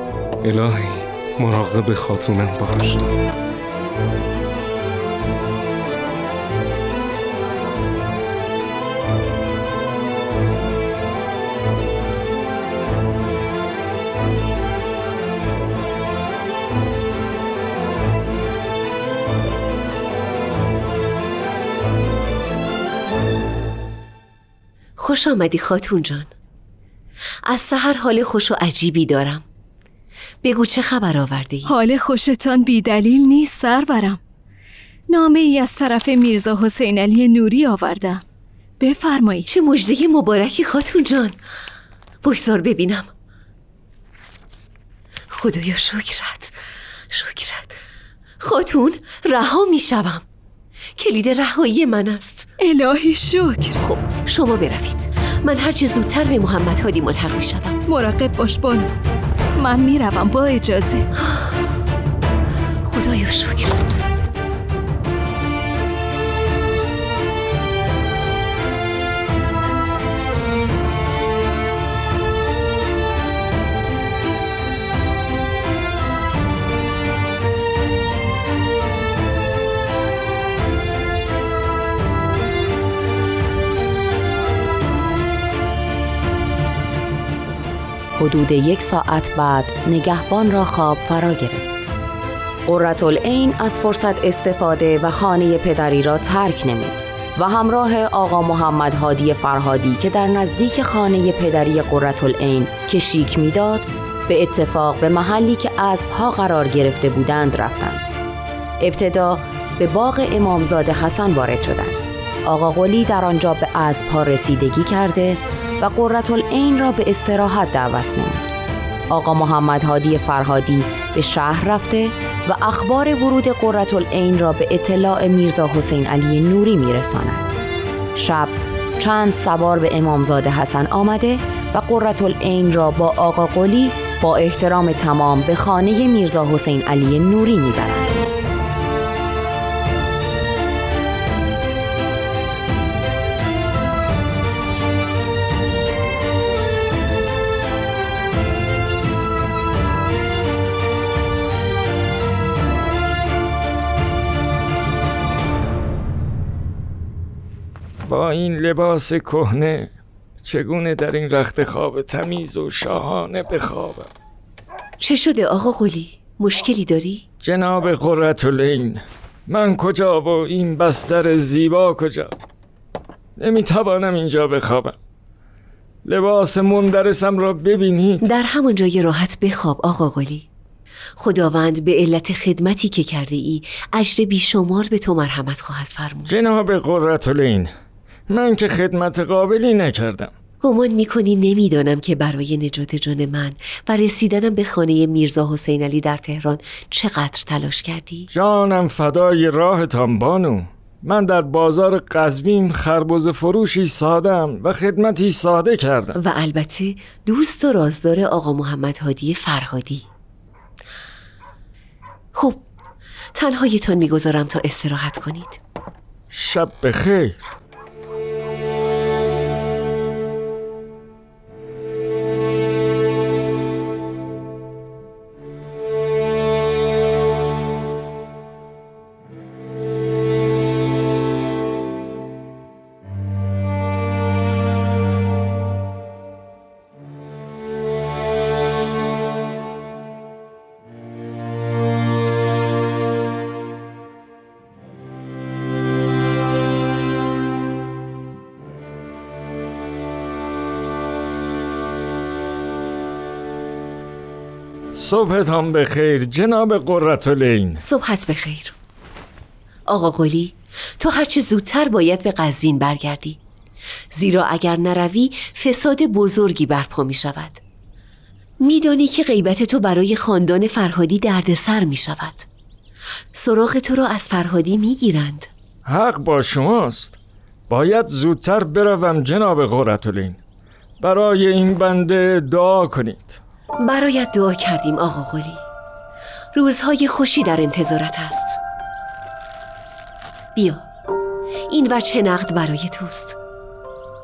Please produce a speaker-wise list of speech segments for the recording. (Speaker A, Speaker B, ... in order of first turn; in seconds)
Speaker A: 0.4-3.0
Speaker B: 25.0-26.3, 27.5-29.4, 30.4-31.6, 39.5-41.4, 42.2-43.1, 45.4-46.5, 47.1-47.8, 48.4-50.2, 51.0-52.5, 53.8-57.7, 62.9-64.0, 165.0-167.2, 178.3-180.4, 181.2-186.3, 190.6-198.2, 206.2-210.0, 212.4-212.6, 213.3-215.6, 257.9-258.7, 259.9-263.4, 264.1-267.6, 268.6-272.4, 273.4-275.5, 283.8-285.6, 286.5-288.6, 290.6-290.8, 291.7-293.4
Speaker C: 31.6-34.2, 35.1-38.2, 38.8-39.5, 52.6-53.8, 57.9-58.9, 59.6-61.1
Speaker D: 88.2-91.7, 92.7-108.1, 108.8-118.5, 119.1-127.5, 128.2-138.3
Speaker E: 158.1-159.9, 160.4-164.1, 167.4-172.3, 173.4-174.9, 176.1-178.2, 186.3-187.7, 188.3-190.3, 198.3-206.2, 216.3-217.4, 254.9-257.8, 275.9-277.2, 277.7-280.4, 281.0-283.4